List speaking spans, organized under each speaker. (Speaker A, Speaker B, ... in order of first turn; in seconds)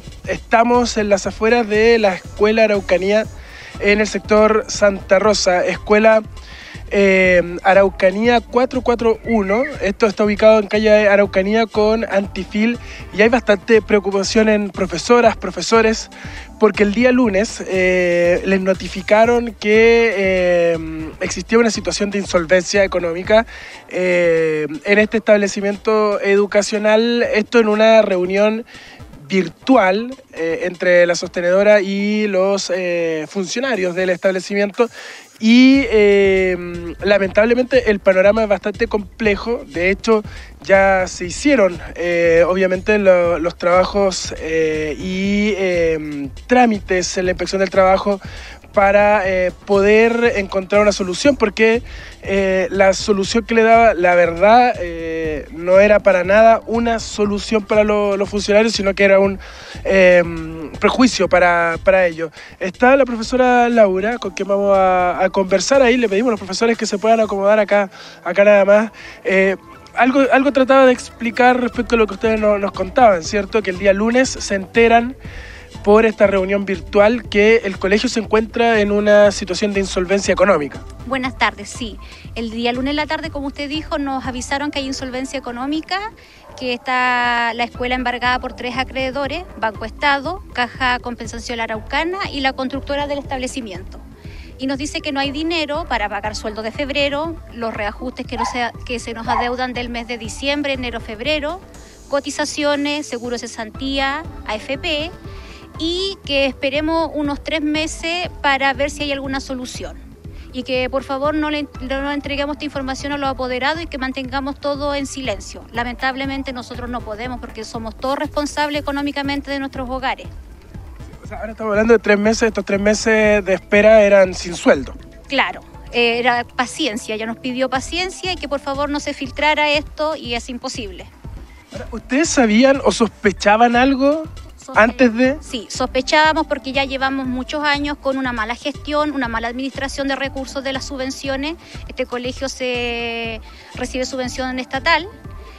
Speaker A: 0.3-3.2, 3.8-6.2, 6.9-28.6, 29.2-48.2, 48.7-75.2, 75.8-80.8, 121.2-125.0, 131.7-135.4
Speaker B: 81.0-94.0, 94.6-105.1, 105.8-110.0, 110.5-120.3, 125.3-131.1, 134.6-145.1